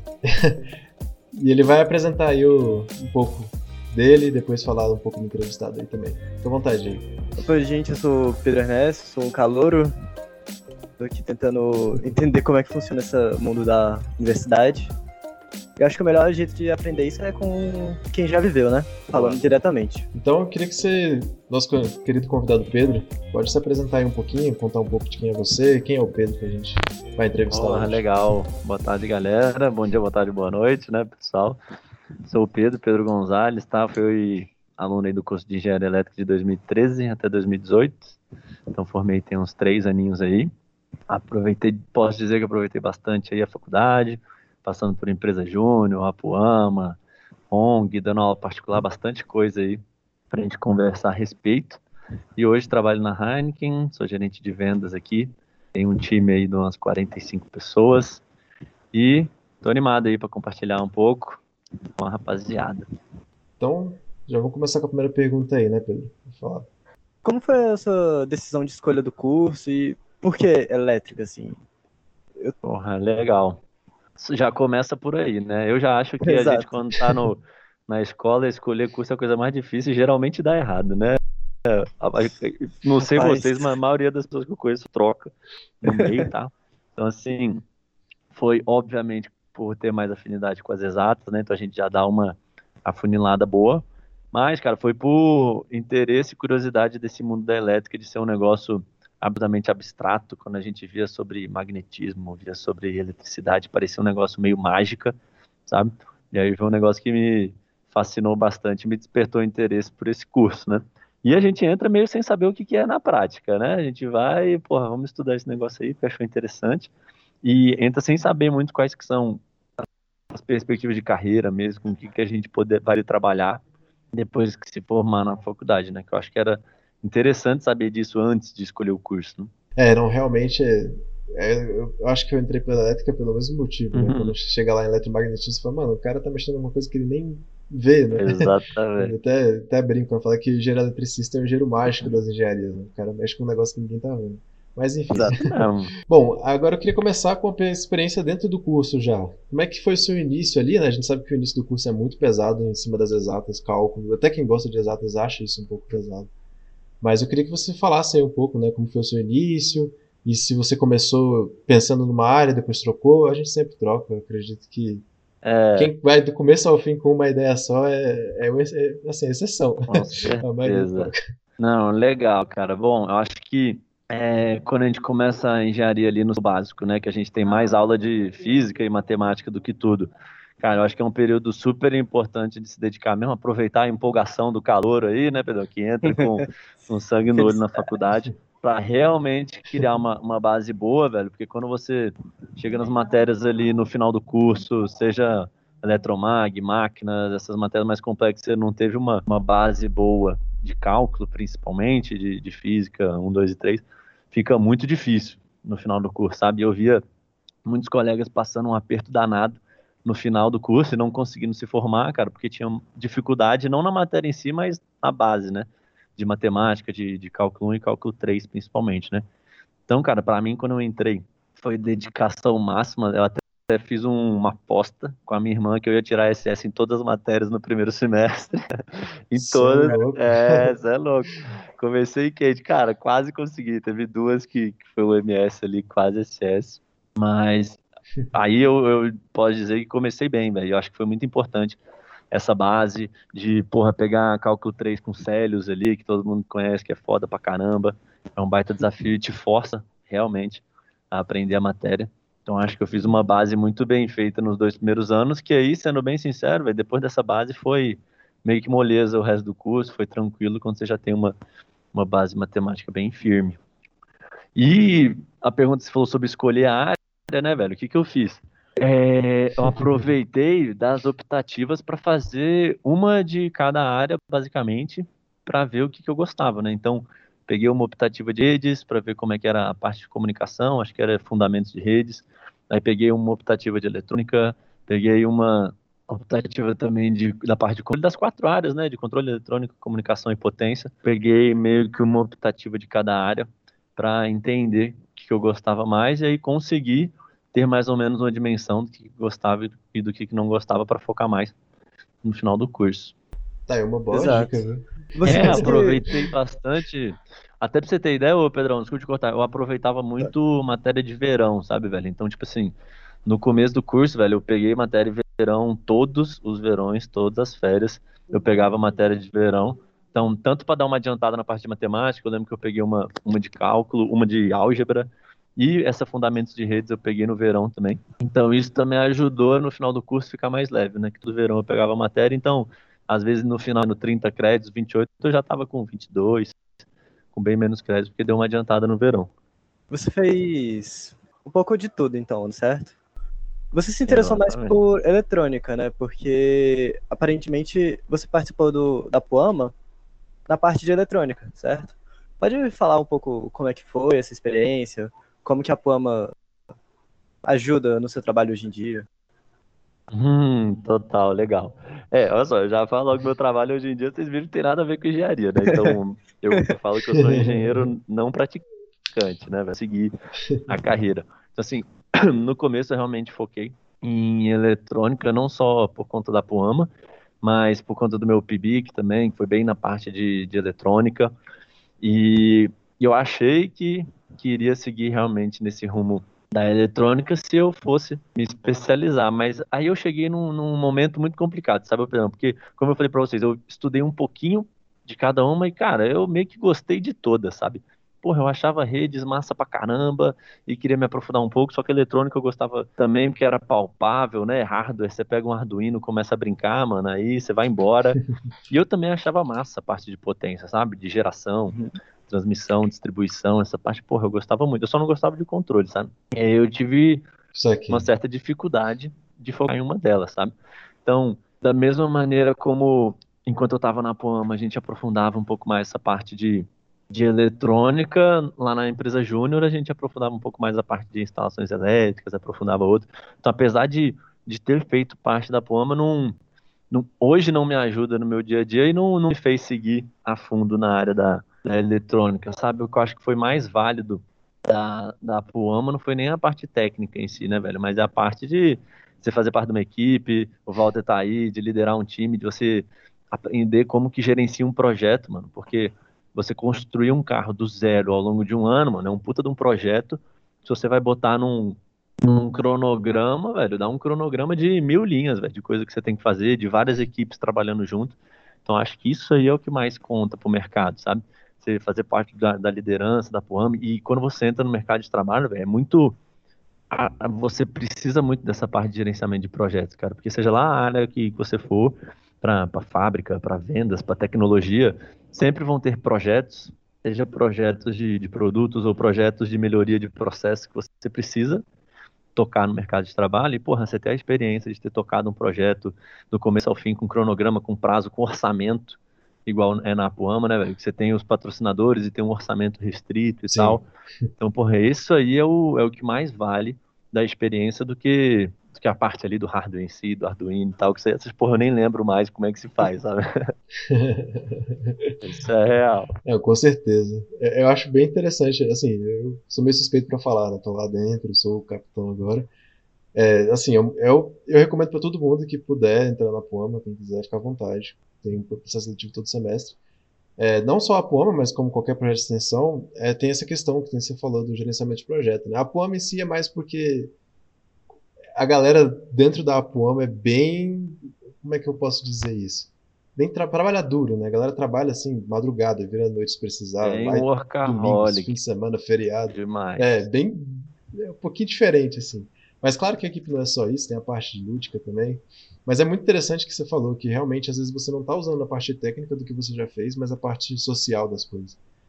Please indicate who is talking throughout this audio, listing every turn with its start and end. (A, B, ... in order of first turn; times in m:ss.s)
0:00.3-0:00.6 A
0:01.3-0:07.1 A
0:07.4-0:10.0 B
0:11.0-0:14.9 B
0:15.8-0:20.1 B
0:19.1-0:19.5 C
0:20.1-0:28.0 A
0:27.5-0:31.6 C
0:32.3-0:38.2 C
0:38.7-0:40.5 C
0:41.1-0:47.0 C
0:47.5-0:51.8 C
0:52.4-0:58.2 C
0:58.9-1:01.4 C
1:02.0-1:02.9 C
1:03.6-1:06.7 A
1:07.2-1:11.6 B
1:12.6-1:13.6 C
1:14.2-1:27.6 C
1:16.2-1:16.6 B
1:23.2-1:23.7 B
1:25.9-1:26.3 B
1:28.3-1:45.2 C
1:45.7-1:56.9 C
1:57.4-2:09.5 C
2:09.8-2:25.5 A
2:13.9-2:14.3 C
2:18.2-2:19.2 C
2:25.1-2:25.9 C
2:26.1-2:36.3 A
2:37.0-2:45.1 A
2:45.4-2:45.9 C
2:45.8-2:51.2 A
2:49.9-3:27.0 C
3:07.3-3:07.8 B
3:27.6-3:39.2 C
3:39.9-3:57.8 C
3:49.4-3:50.7 A
3:58.3-4:01.8 C
4:02.3-4:21.4 C
4:21.9-4:23.6 C
4:24.6-5:01.6 C
4:29.6-4:30.1 A
5:02.2-5:03.2 C
5:03.7-5:06.0 A
5:04.1-5:04.6 B
5:05.2-5:06.0 B
5:05.2-5:12.7 C
5:13.3-5:36.6 C
5:37.3-5:39.3 C
5:39.9-5:43.0 B
5:43.7-5:49.8 B
5:44.1-5:44.8 C
5:50.5-5:56.3 B
5:57.4-5:59.1 B
6:00.1-6:10.1 C
6:05.6-6:06.0 B
6:07.2-6:07.9 A
6:10.7-6:16.9 C
6:17.4-6:21.3 C
6:22.0-6:57.2 C
6:57.5-6:58.1 A
6:57.9-7:00.5 C
7:01.0-7:16.4 C
7:16.9-7:56.2 C
7:56.9-8:11.6 C
8:12.4-8:23.9 C
8:23.5-8:23.8 A
8:24.4-8:33.5 C
8:33.9-8:35.1 A
8:35.2-8:36.1 C
8:36.3-8:42.5 A
8:43.1-8:49.8 A
8:50.4-8:57.1 A
8:58.4-9:21.6 A
9:06.8-9:08.4 C
9:09.3-9:10.0 C